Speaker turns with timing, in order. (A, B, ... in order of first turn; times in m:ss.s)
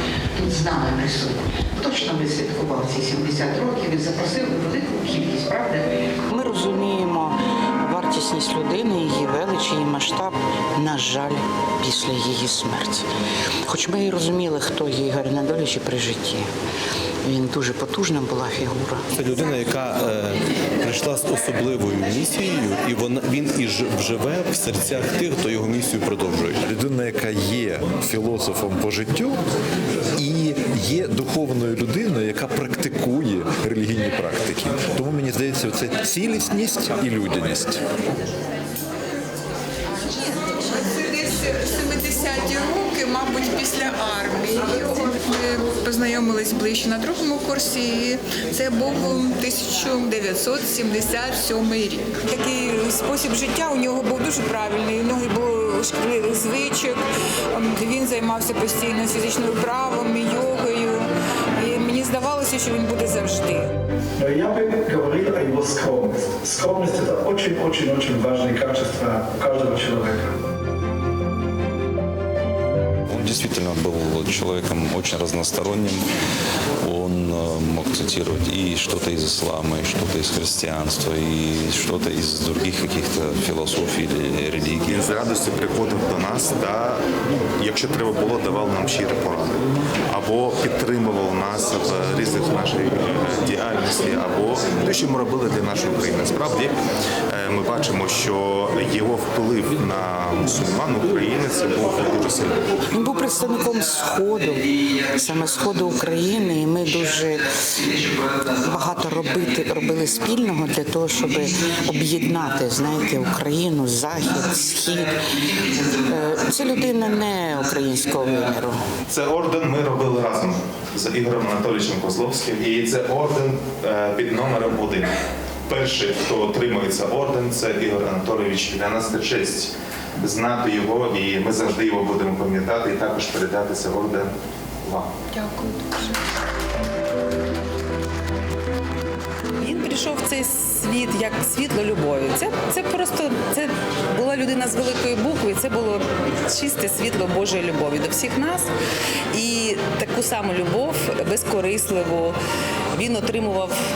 0:00.4-0:13.1 A
0:13.7-0:16.5 A
0:17.2-0:19.0 A
0:19.1-0:26.7 B
0:26.8-0:29.3 C
0:30.2-0:37.7 C
0:40.2-0:57.0 D
0:57.5-1:01.1 D
1:01.6-1:03.7 D
1:04.2-1:10.3 E
1:13.1-1:16.0 F
1:16.8-1:25.1 F
1:24.9-1:27.0 G
1:27.6-1:36.8 G
1:37.3-1:42.6 G
1:42.9-1:58.8 A
1:59.1-2:05.1 G
2:05.7-2:14.3 G
2:14.8-2:15.1 G
2:15.3-2:16.0 D
2:19.6-2:28.7 H
2:29.3-2:32.4 H
2:32.9-2:33.8 H